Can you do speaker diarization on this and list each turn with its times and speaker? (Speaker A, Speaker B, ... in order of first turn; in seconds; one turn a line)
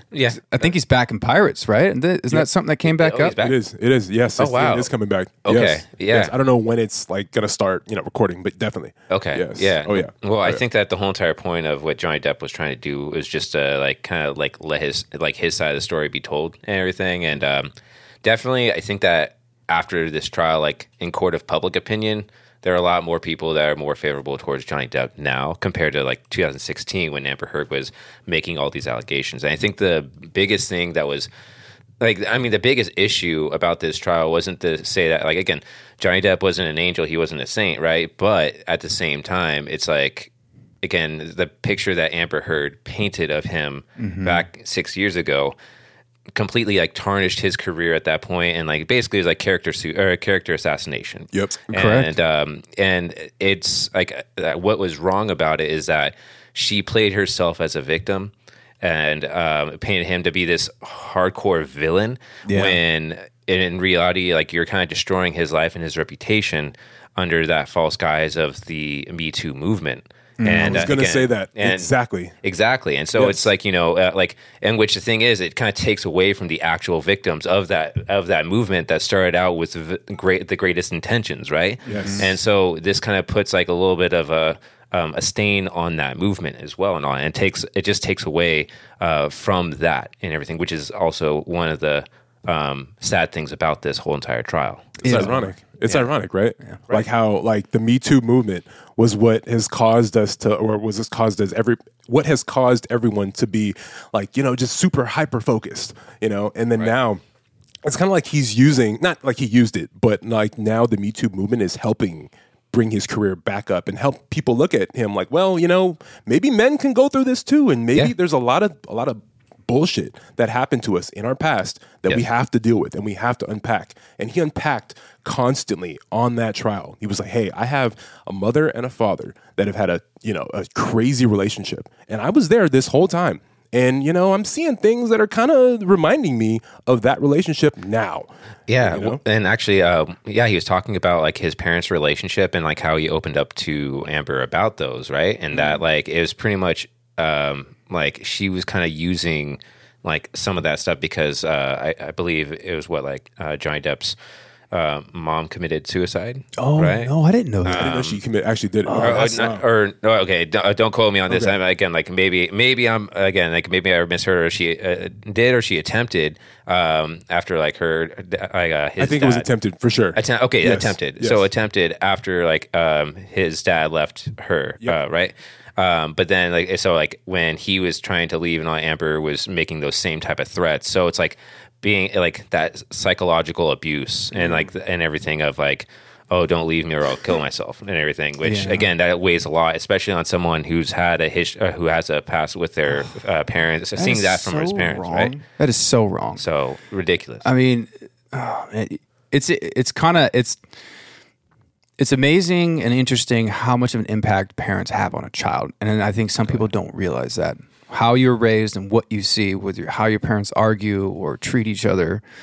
Speaker A: 0.1-0.4
Speaker B: 0.3-3.4
Speaker A: 2.8-3.6
Speaker C: 3.4-10.6
Speaker A: 4.4-4.9
Speaker A: 5.5-6.3
Speaker A: 9.1-17.7
Speaker A: 18.2-31.3
Speaker A: 32.0-40.3
Speaker A: 40.8-45.5
Speaker B: 44.0-44.5
Speaker A: 46.3-95.3
Speaker B: 51.7-52.1
Speaker B: 62.5-62.8
Speaker B: 70.4-70.9
Speaker C: 70.6-72.3
Speaker C: 73.2-73.5
Speaker C: 81.9-82.3
Speaker B: 81.9-82.2
Speaker B: 95.0-95.6
Speaker C: 95.0-107.2
Speaker C: 107.8-138.3
Speaker A: 138.7-154.2
Speaker C: 138.8-139.2
Speaker C: 145.5-145.8
Speaker A: 154.7-157.1
Speaker B: 156.6-158.0
Speaker A: 157.6-158.2
Speaker C: 157.7-159.7
Speaker B: 158.8-159.3
Speaker A: 159.0-169.5
Speaker C: 161.3-161.6
Speaker C: 169.0-171.5
Speaker A: 170.2-195.3
Speaker C: 184.3-184.7
Speaker B: 188.4-188.9
Speaker B: 194.0-196.4
Speaker A: 196.4-197.4
Speaker B: 197.4-200.6
Speaker B: 202.0-212.2